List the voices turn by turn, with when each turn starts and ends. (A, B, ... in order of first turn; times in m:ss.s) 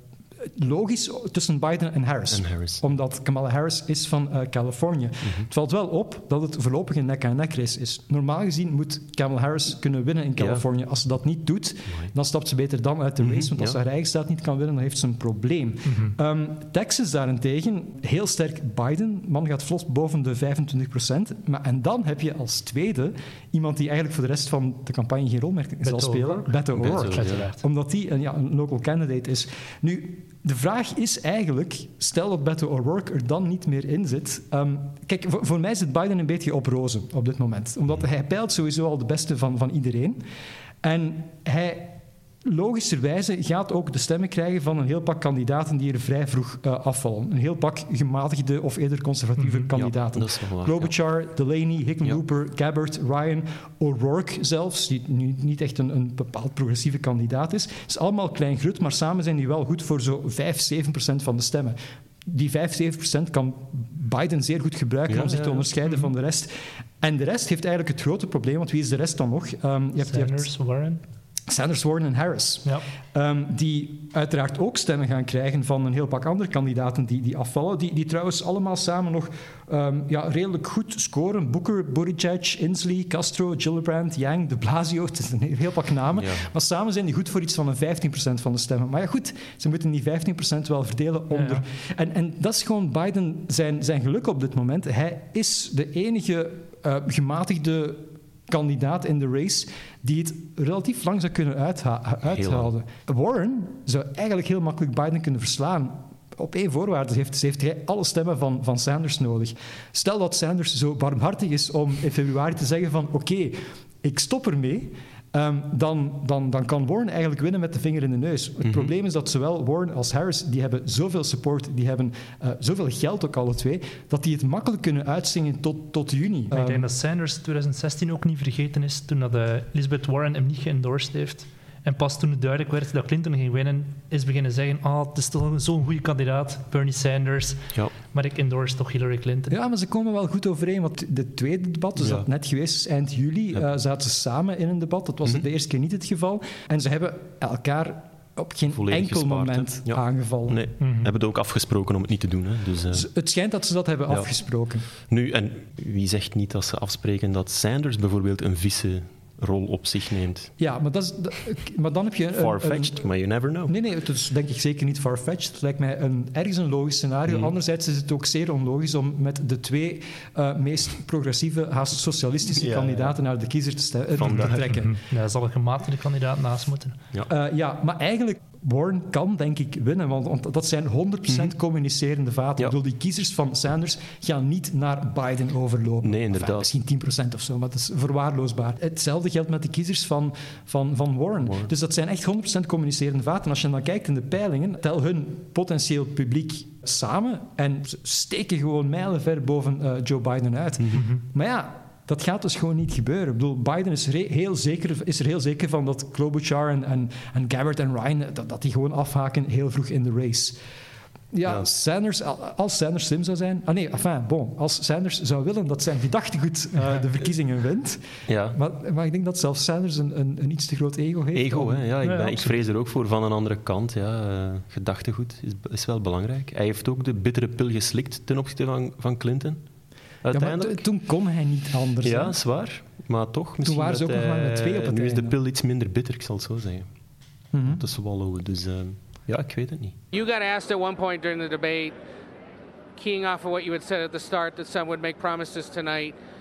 0:00.4-0:40.2 A
0:02.3-0:02.8 B
0:10.4-0:10.6 B
0:11.9-0:12.1 B
0:13.2-0:13.8 B
0:15.8-0:16.1 C
0:25.8-0:27.6 C
0:26.8-0:27.4 B
0:40.8-1:06.5 A
0:49.4-0:49.7 C
0:49.7-0:50.9 B
1:05.1-1:05.6 B
1:05.8-1:06.1 C
1:07.0-1:10.5 A
1:10.0-1:11.0 C
1:11.5-2:06.9 A
1:26.1-1:26.5 B
1:31.3-1:31.6 C
1:42.3-1:42.7 B
1:58.6-1:58.9 B
2:06.5-2:19.5 C
2:19.5-2:30.6 A
2:22.0-2:22.3 B
2:28.7-2:33.1 B
2:30.8-2:31.1 C
2:32.9-2:34.8 A
2:35.0-2:40.5 B
2:40.6-2:43.0 A
2:42.3-2:43.7 B
2:43.6-2:55.0 A
2:47.3-2:47.5 B
2:52.5-2:53.2 B
2:54.2-2:54.8 B
2:54.4-2:57.0 C
2:57.3-3:30.6 A
3:06.0-3:06.7 B
3:11.4-3:11.7 B
3:20.9-3:21.2 C
3:31.3-3:41.8 A
3:38.3-3:38.6 B
3:41.3-3:49.6 B
3:42.0-3:42.5 C
3:50.2-3:50.8 B
3:50.3-3:52.4 A
3:52.0-3:56.9 B
3:53.6-3:55.4 A
3:57.5-3:57.8 A
3:57.6-4:00.0 B
4:00.1-4:01.9 D
4:03.0-4:06.2 D